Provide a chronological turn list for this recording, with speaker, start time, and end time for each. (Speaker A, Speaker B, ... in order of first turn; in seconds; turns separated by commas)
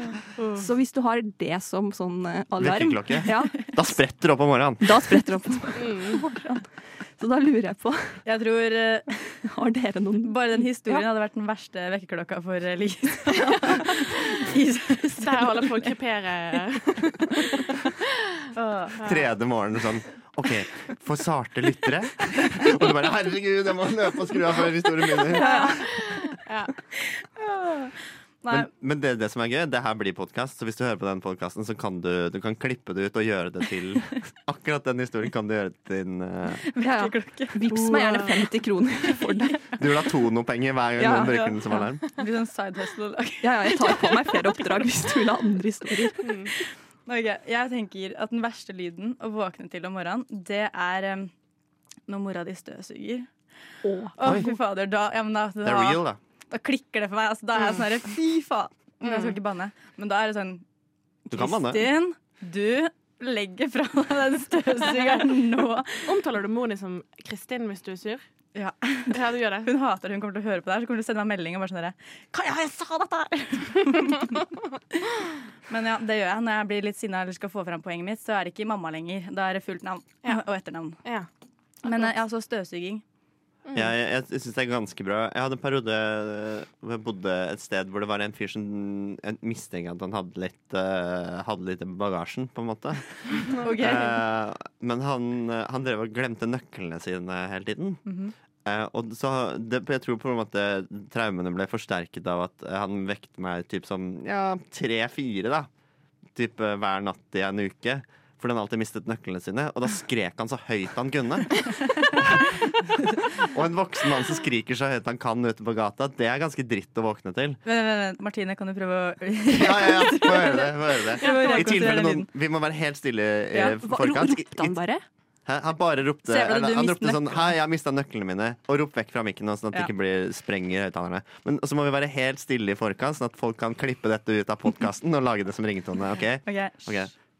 Speaker A: 0.5-3.8, Speaker B: 2.6-5.0, Speaker A: 4.8-8.2, Speaker C: 5.8-6.2, Speaker D: 8.2-9.4, Speaker A: 9.4-11.1, Speaker D: 10.2-15.9, Speaker C: 15.2-17.7, Speaker D: 18.5-19.0, Speaker C: 19.0-19.2, Speaker B: 19.0-25.7, Speaker C: 25.3-26.7, Speaker D: 25.4-25.7, Speaker D: 27.2-28.7, Speaker B: 28.5-36.6, Speaker D: 36.7-38.3, Speaker A: 36.8-39.7, Speaker D: 39.1-39.8, Speaker B: 39.8-42.0, Speaker A: 41.0-41.8, Speaker D: 41.2-41.5, Speaker D: 42.1-44.8, Speaker A: 43.4-46.3, Speaker C: 46.2-46.5, Speaker D: 47.1-51.3, Speaker D: 52.1-53.3, Speaker A: 53.8-54.4, Speaker D: 54.1-60.6, Speaker B: 55.6-56.2, Speaker C: 59.0-59.4, Speaker B: 61.3-61.9, Speaker D: 61.3-66.0, Speaker C: 66.0-68.2, Speaker D: 68.5-74.5, Speaker C: 69.1-69.7, Speaker D: 75.7-81.0, Speaker D: 81.8-83.0, Speaker C: 81.8-82.1, Speaker C: 83.7-83.9, Speaker B: 83.7-98.0, Speaker D: 93.6-94.2, Speaker D: 98.0-98.3, Speaker B: 98.6-105.7, Speaker B: 106.3-112.5, Speaker B: 113.4-117.6, Speaker D: 117.6-122.3, Speaker B: 119.5-124.8, Speaker C: 121.3-121.5, Speaker A: 123.8-125.0, Speaker B: 125.5-137.1, Speaker D: 126.3-127.5, Speaker D: 136.4-137.1